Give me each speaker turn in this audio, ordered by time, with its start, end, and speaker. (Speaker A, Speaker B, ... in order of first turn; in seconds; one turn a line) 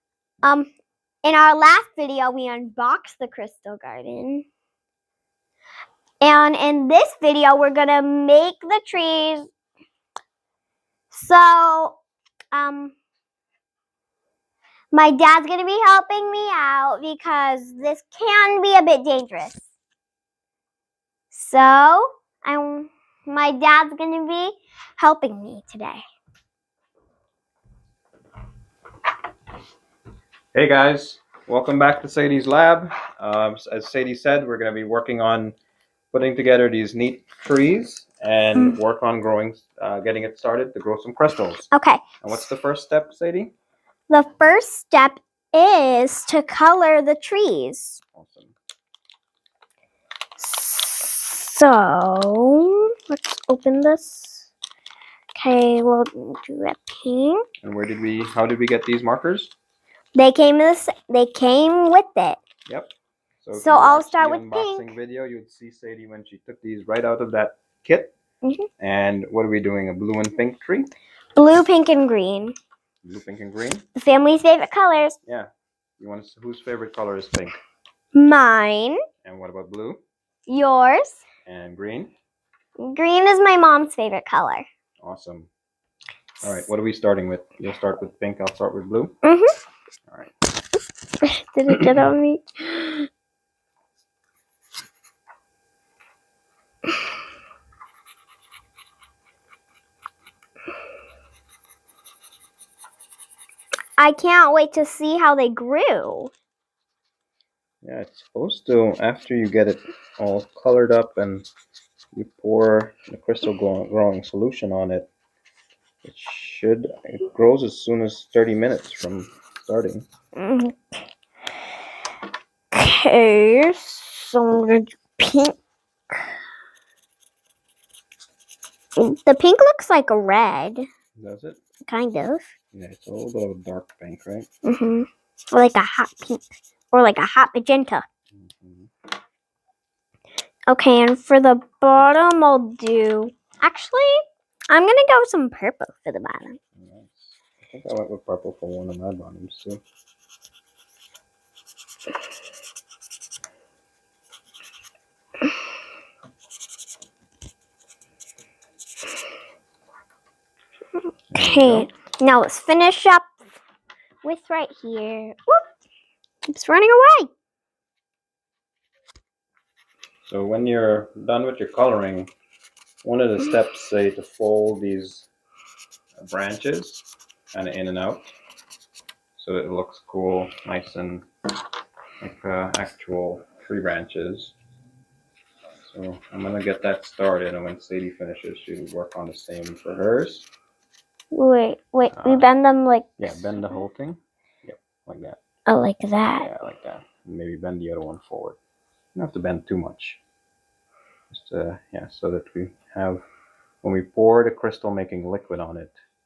Speaker A: 0.4-0.7
Speaker A: 1.2-4.5
Speaker A: 6.2-9.5
Speaker A: 11.1-12.0
Speaker A: 12.5-12.9
Speaker A: 14.9-19.7
Speaker A: 21.3-26.0
Speaker B: 30.5-35.5
Speaker B: 36.1-41.7
Speaker A: 41.7-42.4
Speaker B: 42.2-43.5
Speaker A: 44.1-48.0
Speaker B: 48.1-48.5
Speaker A: 50.4-54.5
Speaker A: 55.3-57.4
Speaker B: 57.6-59.5
Speaker A: 60.1-62.4
Speaker B: 62.7-68.1
Speaker A: 63.5-64.9
Speaker B: 68.8-70.9
Speaker A: 71.3-72.5
Speaker B: 73.0-73.8
Speaker A: 74.0-75.2
Speaker B: 75.2-77.6
Speaker A: 78.1-79.0
Speaker B: 79.2-80.0
Speaker A: 80.5-81.2
Speaker B: 81.5-82.1
Speaker A: 82.8-84.7
Speaker B: 85.0-85.5
Speaker B: 86.4-89.2
Speaker A: 89.2-89.5
Speaker B: 90.1-90.3
Speaker A: 91.2-93.1
Speaker B: 91.7-92.1
Speaker A: 104.0-106.3
Speaker B: 107.8-111.5
Speaker B: 112.1-115.1
Speaker B: 116.0-120.0
Speaker A: 120.3-120.8
Speaker A: 122.7-125.5
Speaker A: 129.0-130.9
Speaker B: 131.2-131.6
Speaker A: 131.8-132.4
Speaker B: 132.7-134.5
Speaker A: 134.6-138.0
Speaker B: 138.3-138.9
Speaker A: 140.7-146.6
Speaker B: 146.8-149.8
Speaker B: 161.3-161.9
Speaker A: 161.3-163.3
Speaker A: 164.2-165.6
Speaker A: 166.5-167.3
Speaker B: 170.2-172.3
Speaker B: 173.0-175.3
Speaker B: 176.2-178.3
Speaker B: 179.4-181.3
Speaker B: 182.2-184.5
Speaker B: 185.8-190.5
Speaker A: 191.3-193.6
Speaker B: 192.1-192.5
Speaker B: 193.2-195.4
Speaker A: 195.7-196.5
Speaker B: 196.3-198.6
Speaker B: 199.1-200.2
Speaker B: 201.3-203.2
Speaker B: 203.8-205.9